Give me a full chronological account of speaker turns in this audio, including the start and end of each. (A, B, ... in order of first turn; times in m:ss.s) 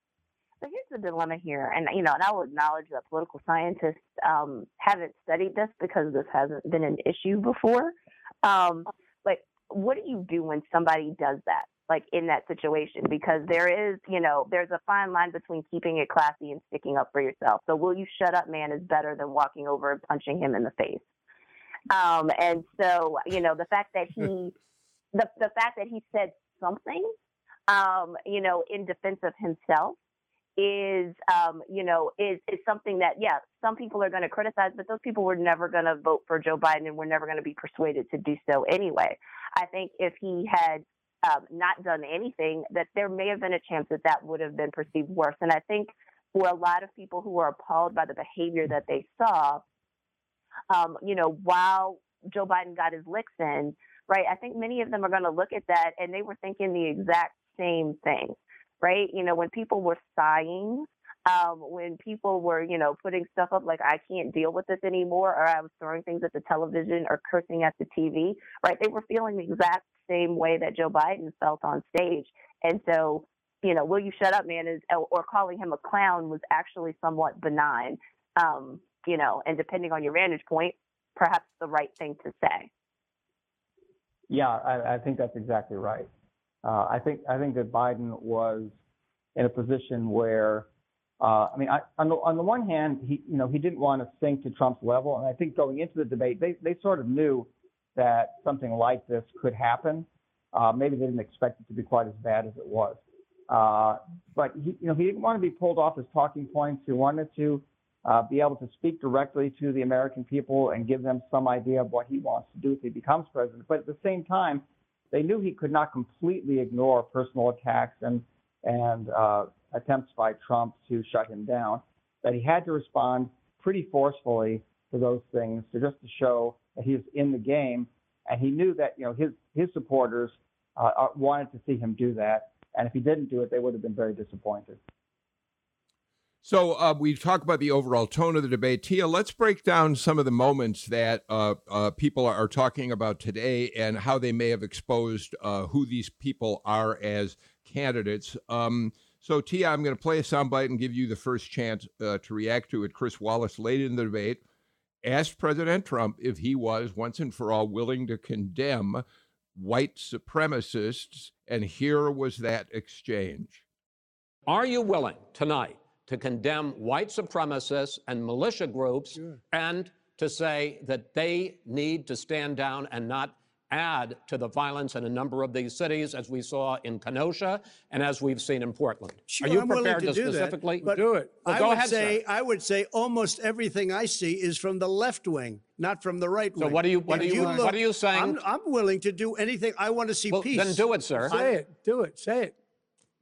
0:00.6-0:21.0 A
0:21.9-0:24.5 A
0:25.1-0:27.1 A
0:27.7-0:30.0 A
0:30.6-0:49.6 A
0:50.7-1:22.7 A
1:24.3-1:26.1 B
1:26.6-1:28.8 B
1:29.4-1:30.7 B
1:31.2-2:14.8 B
2:16.4-2:34.4 C
2:35.0-2:39.0 C
2:39.6-2:43.6 C
2:44.5-3:02.2 D
2:59.3-3:11.6 E
3:00.9-3:01.7 F
3:06.6-3:08.4 D
3:10.3-3:11.3 D
3:11.3-3:12.6 F